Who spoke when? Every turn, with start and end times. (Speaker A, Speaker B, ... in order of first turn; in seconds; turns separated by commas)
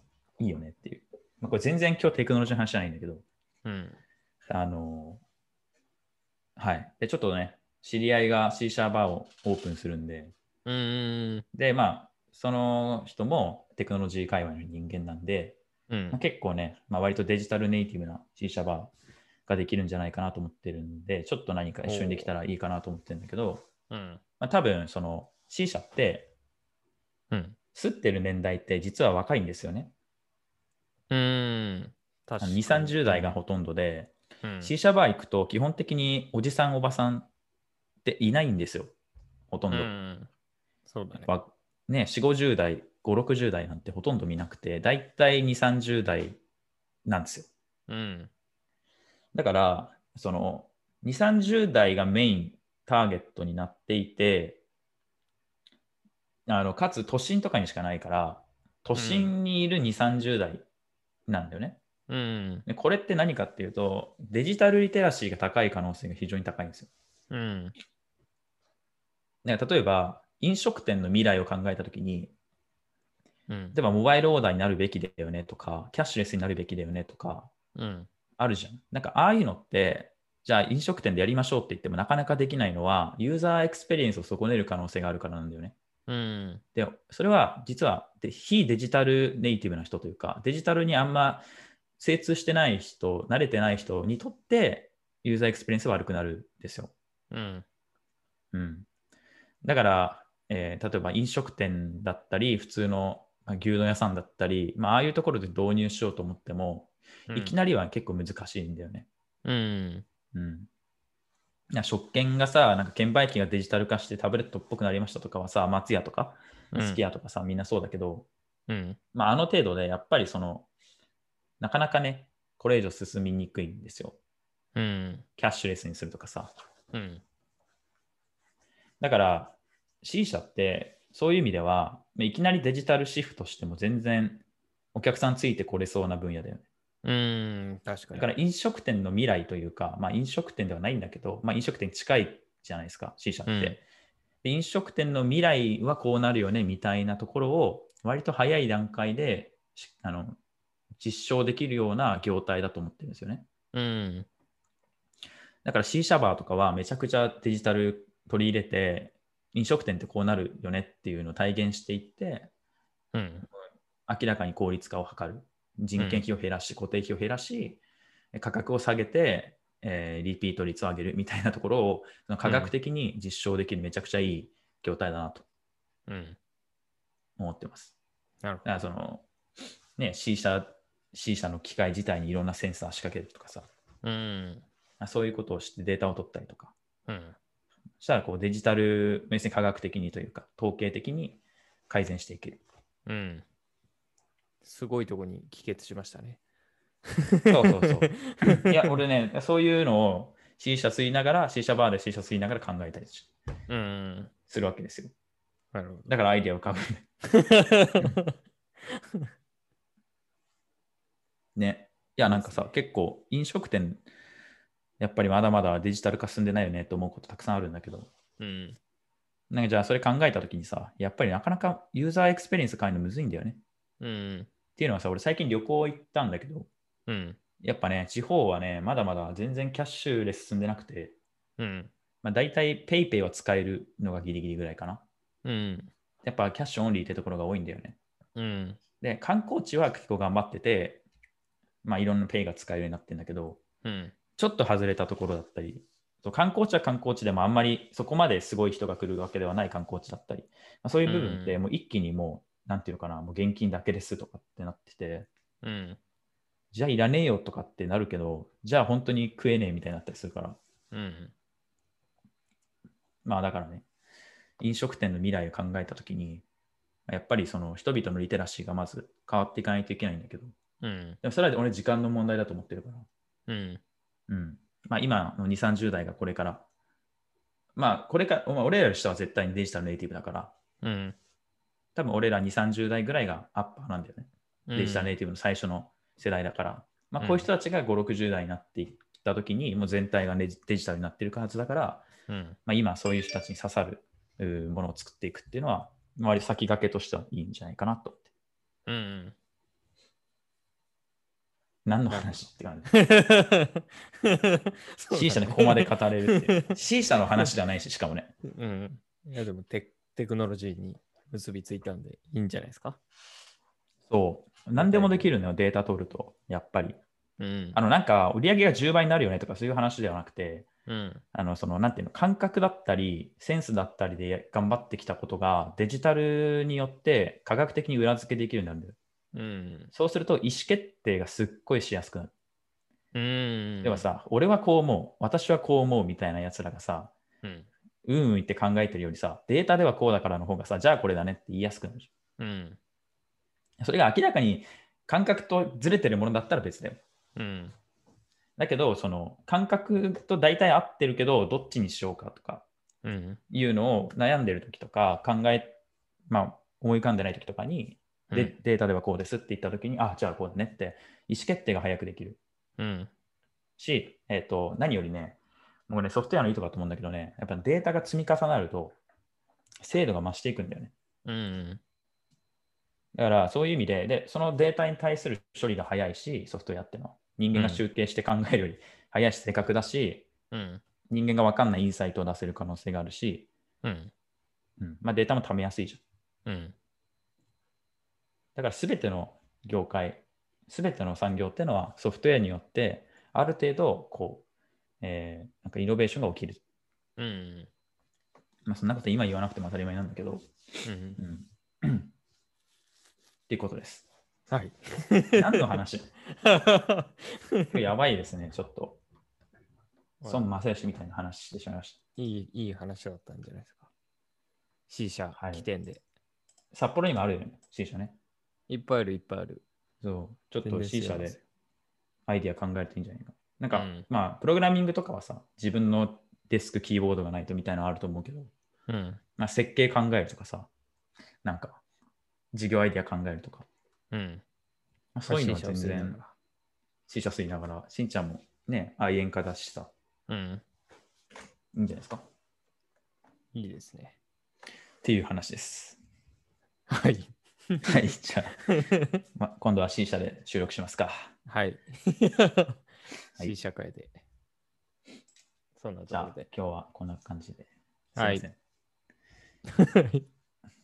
Speaker A: 0.4-3.2, Speaker B: 3.6-4.0, Speaker A: 4.5-5.2, Speaker A: 6.6-10.3, Speaker B: 10.7-11.5, Speaker A: 11.5-15.6, Speaker B: 15.9-16.2, Speaker A: 16.1-18.9, Speaker A: 19.5-23.6, Speaker B: 21.8-22.3, Speaker B: 23.9-24.2, Speaker A: 24.4-26.3, Speaker B: 27.3-27.6, Speaker A: 27.7-29.9, Speaker B: 31.1-33.4, Speaker A: 32.4-37.3, Speaker B: 34.4-34.7, Speaker A: 38.0-38.9, Speaker A: 39.5-39.9, Speaker B: 39.7-40.3, Speaker B: 40.9-41.3, Speaker A: 41.1-46.4, Speaker A: 47.1-47.5, Speaker B: 47.9-48.3, Speaker A: 49.4-54.6, Speaker A: 56.5-60.6, Speaker B: 58.9-59.3, Speaker A: 61.3-61.8, Speaker B: 62.1-62.7, Speaker A: 62.7-66.9, Speaker B: 67.3-67.8, Speaker A: 69.4-72.3, Speaker B: 73.5-73.8, Speaker A: 73.7-77.5, Speaker B: 77.8-78.1, Speaker A: 78.4-85.8, Speaker B: 86.1-86.6, Speaker A: 86.8-91.5, Speaker A: 92.0-96.9, Speaker B: 97.3-97.7, Speaker A: 98.5-98.9, Speaker A: 99.6-109.1, Speaker B: 107.3-107.5, Speaker B: 109.5-110.0, Speaker A: 110.3-110.7, Speaker A: 111.7-118.3, Speaker B: 116.7-117.0, Speaker B: 118.7-119.0, Speaker A: 119.1-120.7, Speaker A: 121.6-124.2, Speaker B: 124.8-125.2, Speaker A: 125.4-126.5, Speaker B: 126.9-127.2, Speaker A: 129.0-134.4, Speaker A: 134.9-136.7, Speaker B: 137.0-138.3, Speaker A: 138.2-143.8, Speaker B: 143.5-143.8, Speaker A: 144.4-150.4, Speaker A: 151.0-153.5, Speaker B: 153.7-154.3, Speaker A: 155.7-162.5, Speaker B: 163.1-163.5, Speaker A: 163.5-167.8, Speaker B: 166.0-166.2, Speaker A: 168.3-175.5, Speaker B: 172.4-172.7, Speaker B: 176.1-176.4, Speaker A: 177.4-178.0, Speaker B: 178.4-178.8, Speaker A: 178.7-179.3, Speaker A: 180.0-183.7, Speaker B: 184.0-184.7, Speaker A: 185.0-186.7, Speaker B: 187.1-187.4, Speaker A: 188.0-192.6, Speaker B: 193.1-193.4, Speaker B: 194.6-196.4, Speaker B: 197.3-198.9, Speaker A: 197.5-203.3, Speaker B: 203.7-204.3, Speaker A: 204.5-205.1, Speaker B: 205.7-206.1, Speaker A: 206.1-207.1, Speaker B: 207.3-208.3, Speaker A: 211.6-214.1, Speaker B: 212.2-212.7, Speaker A: 215.0-218.1, Speaker B: 218.4-218.8, Speaker A: 219.5-223.6, Speaker B: 224.0-224.5, Speaker A: 224.8-226.7, Speaker B: 227.1-227.4, Speaker A: 227.6-231.2, Speaker B: 231.6-231.9, Speaker A: 232.2-235.0, Speaker B: 235.4-235.9, Speaker A: 236.2-238.0, Speaker B: 238.4-238.8, Speaker A: 239.0-241.0, Speaker A: 241.8-243.6, Speaker B: 243.8-244.1, Speaker A: 244.4-255.3, Speaker B: 251.1-251.6, Speaker B: 255.6-256.0, Speaker A: 256.7-260.6, Speaker B: 260.9-261.3, Speaker A: 263.2-263.9, Speaker A: 264.6-266.4, Speaker A: 267.1-270.5, Speaker B: 270.8-271.2, Speaker A: 271.2-273.1, Speaker B: 273.5-273.8, Speaker A: 274.3-276.6, Speaker A: 277.8-280.5, Speaker B: 280.8-281.2, Speaker A: 281.9-292.1, Speaker B: 284.7-285.2, Speaker B: 287.2-287.5, Speaker B: 292.3-292.6, Speaker A: 292.7-298.2, Speaker B: 298.9-299.4, Speaker A: 301.9-302.9, Speaker B: 302.1-302.4, Speaker B: 302.9-306.6, Speaker A: 305.1-308.3, Speaker B: 308.5-313.0, Speaker A: 314.1-317.0, Speaker B: 314.7-315.3, Speaker B: 317.4-317.8, Speaker A: 317.7-320.7, Speaker B: 320.9-321.2, Speaker A: 321.3-329.0, Speaker B: 329.3-329.9, Speaker A: 329.9-332.3, Speaker B: 333.1-334.1, Speaker A: 333.8-337.1, Speaker A: 338.1-342.1, Speaker B: 342.4-342.8, Speaker A: 343.8-347.0, Speaker B: 347.4-347.8, Speaker A: 348.6-352.7, Speaker B: 353.0-353.4, Speaker A: 353.5-355.8, Speaker A: 356.3-362.4, Speaker B: 362.8-363.1, Speaker A: 363.8-369.0, Speaker A: 369.8-370.9, Speaker B: 371.2-371.8, Speaker A: 373.1-380.3, Speaker B: 377.5-377.8, Speaker B: 380.5-380.8, Speaker A: 381.1-383.5, Speaker B: 383.8-384.1, Speaker A: 384.8-386.0, Speaker B: 386.5-386.8, Speaker A: 388.6-394.4, Speaker A: 395.0-396.6, Speaker B: 397.2-397.7, Speaker A: 398.7-400.5, Speaker B: 400.9-401.2, Speaker A: 401.2-402.1, Speaker A: 403.5-404.1, Speaker B: 404.5-405.7, Speaker A: 405.3-406.1, Speaker B: 406.3-407.8, Speaker A: 407.7-409.0, Speaker A: 410.2-412.0, Speaker B: 412.2-413.9, Speaker B: 414.9-416.0, Speaker A: 415.3-415.7, Speaker A: 416.7-418.1, Speaker B: 418.7-419.6, Speaker A: 420.0-421.4, Speaker B: 420.6-421.4, Speaker A: 422.3-428.5, Speaker B: 423.7-424.1, Speaker B: 428.9-429.2, Speaker A: 429.4-430.7, Speaker A: 431.4-431.8, Speaker A: 432.5-433.7, Speaker B: 434.1-434.4, Speaker A: 435.1-436.2, Speaker B: 435.3-436.3, Speaker A: 437.1-439.9, Speaker B: 440.3-440.6, Speaker A: 441.7-442.2, Speaker B: 443.5-444.2, Speaker A: 445.0-446.0, Speaker B: 446.9-448.0, Speaker A: 447.8-448.7, Speaker B: 448.7-449.1, Speaker A: 449.4-451.3, Speaker B: 451.5-452.8, Speaker B: 453.4-454.2, Speaker B: 455.8-456.4, Speaker A: 456.1-458.6, Speaker B: 458.2-458.4, Speaker B: 459.7-460.3